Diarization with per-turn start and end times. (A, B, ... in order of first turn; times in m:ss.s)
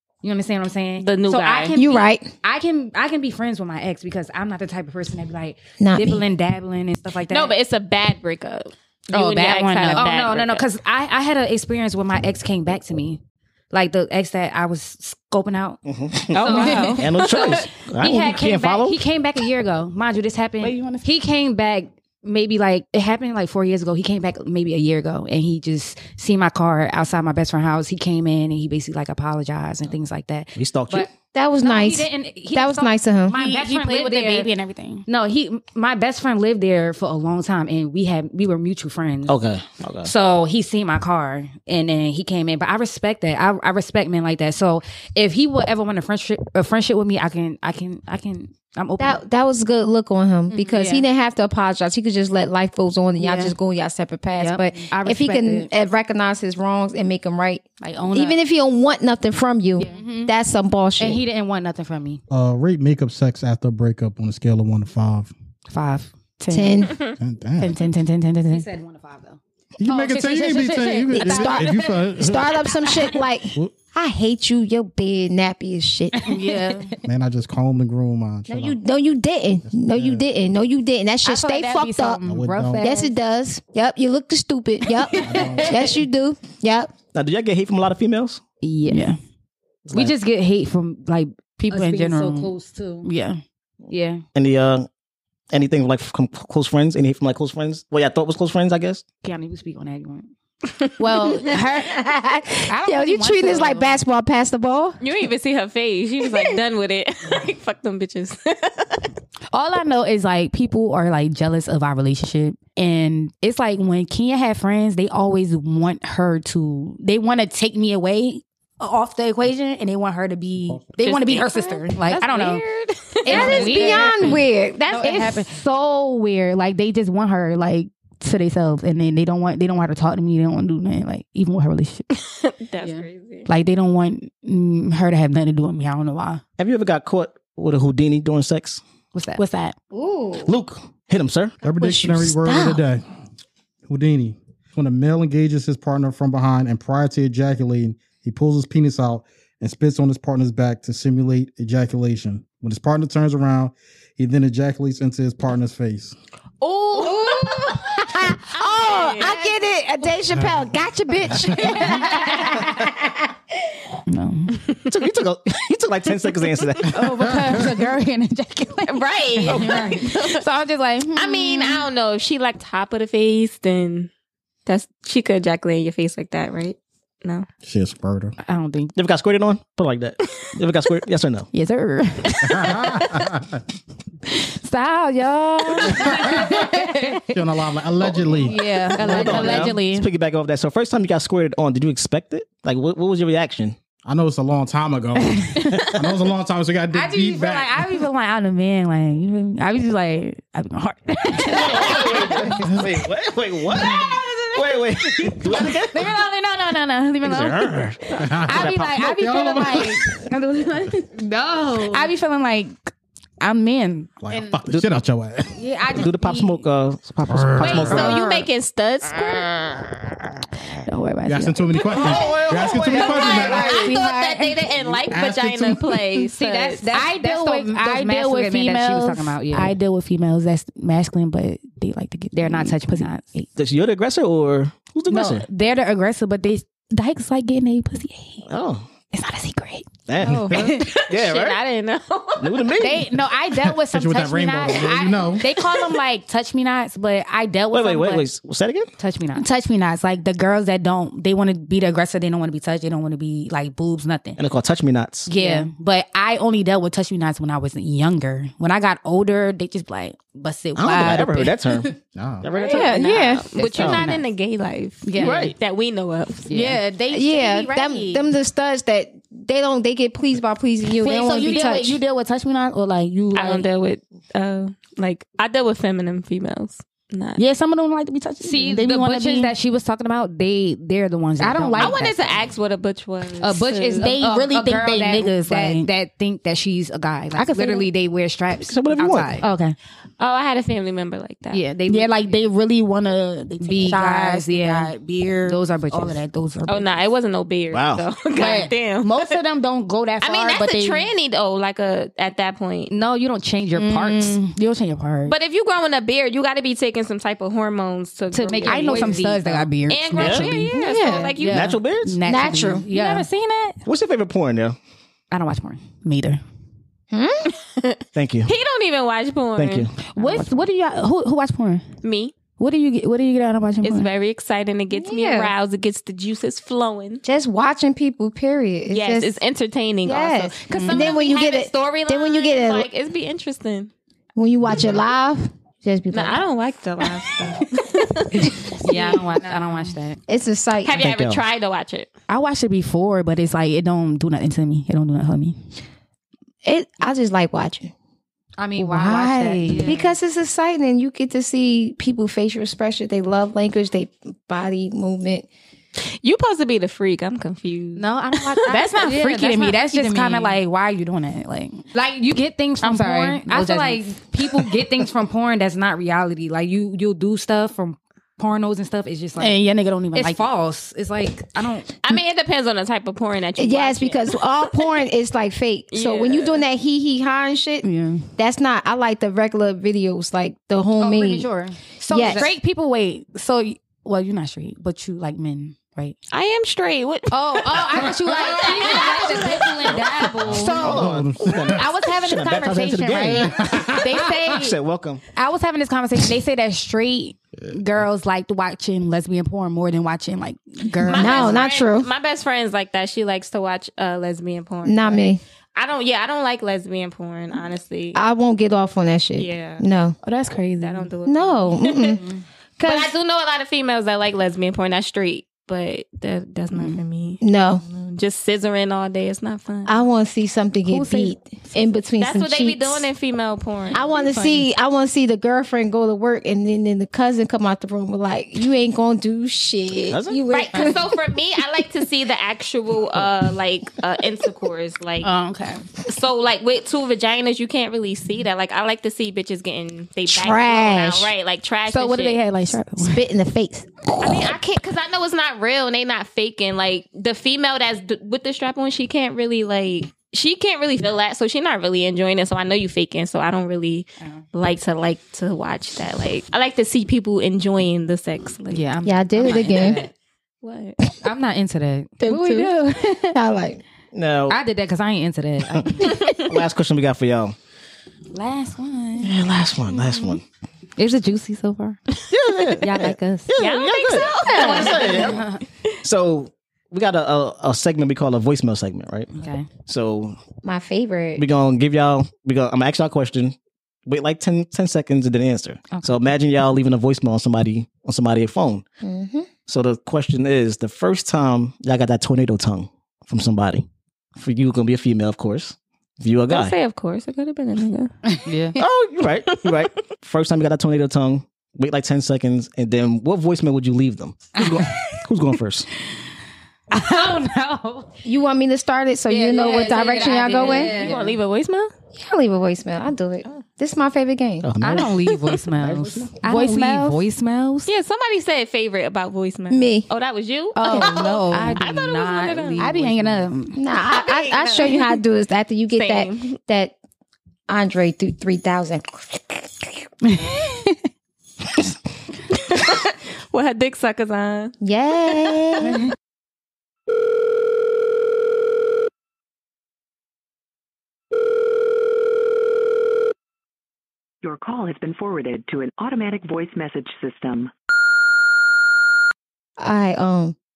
0:00.2-0:07.5 A
0:01.0-0:01.8 B
0:01.8-0:02.3 C
0:05.8-0:06.3 C
0:07.2-0:10.7 B
0:09.1-0:13.2 A
0:09.7-0:10.0 D
0:13.7-0:15.8 A
0:15.9-0:19.0 E
0:16.3-0:17.6 B
0:16.4-0:31.1 A
0:16.4-0:17.0 D
0:20.6-0:21.1 D
0:30.6-0:31.1 E
0:31.3-0:33.4 C
0:31.6-0:34.5 A
0:32.5-0:35.0 D
0:35.1-0:39.3 A
0:39.3-0:40.1 E
0:40.0-0:49.2 A
0:49.0-1:01.2 C
0:50.5-0:51.0 D
0:50.6-0:51.0 A
0:53.2-0:53.5 A
0:54.4-0:55.7 A
0:57.8-0:58.4 A
0:59.8-1:00.3 D
0:59.8-1:00.3 A
1:01.0-1:02.2 A
1:02.3-1:05.3 F
1:05.7-1:06.9 D
1:05.7-1:06.1 A
1:06.5-1:07.0 C
1:06.9-1:07.2 B
1:07.2-1:07.8 F
1:07.6-1:08.6 D
1:08.5-1:09.4 A
1:09.8-1:12.6 F
1:09.9-1:11.9 D
1:09.9-1:12.1 A
1:11.1-1:16.4 C
1:16.2-1:17.0 D
1:17.0-1:18.8 F
1:18.5-1:22.2 C
1:19.7-1:20.2 F
1:21.2-1:23.1 D
1:22.2-1:22.8 F
1:22.8-1:26.9 C
1:25.1-1:25.7 A
1:25.2-1:25.9 F
1:27.1-1:28.4 E
1:28.6-1:29.1 A
1:28.8-1:29.2 D
1:29.9-1:30.2 E
1:29.9-1:33.1 A
1:31.6-1:33.4 D
1:33.9-1:34.2 A
1:34.4-1:34.9 E
1:35.5-1:39.0 E
1:39.2-1:40.3 A
1:41.0-1:45.0 C
1:41.3-1:42.0 D
1:42.7-1:43.9 D
1:43.3-1:43.7 A
1:45.0-1:49.1 B
1:49.5-2:02.6 D
2:00.7-2:01.0 F
2:01.1-2:03.5 B
2:03.2-2:05.3 C
2:03.2-2:12.1 D
2:03.3-2:04.4 A
2:04.9-2:05.5 A
2:12.4-2:13.5 B
2:13.5-2:16.4 D
2:16.6-2:18.8 E
2:19.1-2:19.4 A
2:19.4-2:19.8 D
2:19.9-2:20.5 C
2:20.4-2:21.6 E
2:21.6-2:23.0 F
2:21.8-2:22.7 C
2:23.9-2:36.2 F
2:36.6-2:37.9 B
2:37.0-2:43.2 C
2:38.5-2:39.5 B
2:40.3-2:40.6 F
2:41.3-2:42.0 F
2:42.0-2:42.3 D
2:44.1-2:44.6 D
2:44.9-2:47.3 E
2:46.8-2:47.6 F
2:46.9-2:51.8 D
2:48.9-2:50.4 B
2:49.4-2:49.8 E
2:51.2-2:54.1 B
2:54.7-2:57.5 B
2:57.6-2:58.4 F
2:58.4-2:58.9 D
2:59.0-3:01.5 E
3:01.5-3:03.0 D
3:02.3-3:02.5 B
3:02.4-3:03.6 F
3:04.3-3:07.3 D
3:05.8-3:09.7 F
3:08.1-3:08.4 E
3:08.4-3:10.1 D
3:09.0-3:09.7 A
3:09.0-3:13.8 E
3:14.0-3:18.0 F
3:15.5-3:15.8 D
3:16.9-3:22.7 D
3:21.4-3:26.1 E
3:22.5-3:22.9 F
3:23.8-3:27.8 D
3:27.2-3:30.2 F
3:27.8-3:29.0 E
3:28.4-3:31.0 D
3:31.1-3:32.1 A
3:31.8-3:32.7 D
3:33.4-3:34.5 D
3:34.2-3:35.5 F
3:34.7-3:35.0 E
3:35.6-3:36.5 D
3:35.9-3:38.2 E
3:37.3-3:38.2 F
3:37.6-3:40.0 B
3:37.6-3:38.5 D
3:40.8-3:42.2 D
3:41.3-3:44.0 F
3:41.9-3:43.8 E
3:42.1-3:46.9 B
3:42.8-3:44.5 D
3:44.8-3:46.0 F
3:46.4-3:53.5 D
3:46.4-3:49.8 A
3:52.3-3:53.4 A
3:53.6-3:55.4 E
3:55.1-3:58.4 D
3:58.5-3:58.9 E
3:59.1-4:00.8 D
4:00.1-4:01.6 E
4:00.2-4:00.7 A
4:00.5-4:02.9 B
4:02.4-4:03.1 E
4:02.8-4:07.7 D
4:03.7-4:05.6 F
4:04.9-4:05.7 A
4:07.2-4:08.3 A
4:07.7-4:08.9 E
4:09.0-4:09.5 A
4:09.3-4:14.4 D
4:14.4-4:15.3 E
4:15.3-4:21.6 D
4:15.3-4:15.7 A
4:20.8-4:24.1 E
4:22.2-4:22.5 F
4:22.5-4:26.5 B
4:22.7-4:24.2 D
4:23.8-4:24.1 A
4:25.0-4:25.5 D
4:25.2-4:25.6 E
4:26.5-4:26.8 A
4:26.5-4:28.3 D
4:27.1-4:32.0 C
4:31.0-4:33.7 D
4:33.3-4:37.4 B
4:37.4-4:39.6 D
4:38.4-4:42.4 A
4:41.4-4:42.0 D
4:41.8-4:44.1 B
4:43.4-4:49.7 A
4:44.0-4:45.9 D
4:47.3-4:49.8 D
4:47.5-4:47.9 B
4:48.6-4:49.4 E
4:50.2-4:51.7 B
4:51.5-4:52.3 A
4:51.9-4:56.9 D
4:53.6-4:56.2 A
4:56.7-4:59.4 B
4:57.7-4:58.0 E
4:58.4-5:01.0 D
4:58.4-4:58.7 A
5:00.2-5:02.9 B
5:02.9-5:04.4 A
5:03.7-5:05.4 D
5:05.2-5:11.8 B
5:08.3-5:09.7 A
5:08.3-5:13.8 D
5:10.2-5:10.6 E
5:10.8-5:11.3 C
5:10.9-5:11.8 A
5:11.4-5:12.2 E
5:12.3-5:12.9 C
5:12.9-5:13.3 A
5:13.9-5:14.8 E
5:15.3-5:16.4 D
5:17.1-5:17.5 C
5:17.7-5:19.9 B
5:18.2-5:18.5 E
5:19.6-5:19.9 E
5:20.1-5:21.8 D
5:20.2-5:20.5 A
5:22.0-5:22.4 B
5:22.6-5:24.1 D
5:23.8-5:27.2 B
5:25.0-5:25.5 C
5:27.2-5:29.4 C
5:28.9-5:33.9 B
5:30.0-5:32.9 C
5:30.7-5:31.1 D
5:34.4-5:36.4 C
5:36.1-5:38.8 B
5:38.8-5:40.2 A
5:38.8-5:39.9 D
5:40.3-5:41.0 C
5:40.8-5:42.1 B
5:40.9-5:41.4 E
5:42.3-5:45.6 D
5:46.6-5:47.9 C
5:48.6-5:50.1 A
5:48.8-5:50.1 D
5:49.7-5:55.5 C
5:56.0-5:58.8 B
5:58.0-6:00.6 A
5:58.7-6:04.8 D
6:01.9-6:09.6 A
6:09.4-6:10.4 D
6:10.1-6:11.9 A
6:12.0-6:14.4 B
6:13.6-6:17.8 C
6:15.9-6:16.6 B
6:17.8-6:18.3 D
6:18.4-6:21.5 C
6:21.0-6:22.6 A
6:21.9-6:26.1 D
6:22.1-6:22.5 C
6:26.3-6:30.1 B
6:27.3-6:30.8 D
6:27.4-6:30.8 A
6:30.4-6:31.9 F
6:30.4-6:35.2 E
6:31.8-6:33.5 D
6:31.9-6:33.4 A
6:33.3-6:34.5 F
6:34.0-6:34.7 A
6:35.4-6:41.6 D
6:41.0-6:48.2 B
6:41.1-6:42.1 C
6:44.8-6:45.4 C
6:48.2-6:50.2 C
6:49.4-6:49.9 B
6:50.2-6:51.1 D
6:50.8-6:52.2 B
6:51.3-6:52.2 C
6:52.8-6:53.1 C
6:52.8-7:00.0 B
6:57.4-6:57.8 C
6:59.9-7:03.1 C
7:02.2-7:04.5 B
7:03.9-7:11.2 C
7:10.1-7:10.4 E
7:10.5-7:15.3 B
7:15.2-7:15.8 D
7:16.1-7:22.5 B
7:20.3-7:21.3 C
7:21.9-7:23.2 D
7:23.0-7:24.5 C
7:24.2-7:38.9 B
7:38.7-7:40.1 A
7:39.0-7:40.0 C
7:39.5-7:39.9 D
7:40.6-7:41.0 B
7:41.2-7:42.7 A
7:42.2-7:43.8 C
7:42.3-7:43.2 D
7:44.1-7:44.6 E
7:44.5-7:46.2 A
7:45.8-7:47.6 E
7:48.3-7:49.3 A
7:49.2-7:50.4 E
7:51.0-7:52.0 A
7:52.3-7:55.5 E
7:52.8-7:53.5 A
7:53.6-7:55.3 B
7:54.2-7:55.1 C
7:56.0-7:59.3 E
7:59.4-7:59.7 A
7:59.9-8:00.4 E
8:00.6-8:01.4 C
8:01.4-8:08.8 E
8:09.0-8:09.5 C
8:09.7-8:16.8 E
8:16.5-8:18.1 B
8:18.4-8:18.8 D
8:18.5-8:18.8 A
8:18.8-8:25.9 E
8:19.5-8:19.8 B
8:26.9-8:27.6 A
8:26.9-8:28.0 D
8:28.2-8:31.1 C
8:29.3-8:31.2 D
8:29.4-8:31.2 A
8:30.6-8:31.9 B
8:32.2-8:34.7 C
8:34.6-8:36.3 E
8:34.8-8:37.8 A
8:35.2-8:35.6 B
8:36.4-8:37.9 D
8:37.8-8:41.2 B
8:39.7-8:40.1 C
8:40.8-8:43.8 D
8:40.8-8:43.5 A
8:40.8-8:41.7 C
8:41.8-8:42.9 B
8:43.8-8:47.0 C
8:44.0-8:45.2 B
8:46.0-8:46.6 B
8:47.7-8:49.6 C
8:50.2-8:51.0 D
8:52.5-8:54.7 B
8:54.8-8:56.0 C
9:04.4-9:07.7 G
9:09.8-9:10.6 C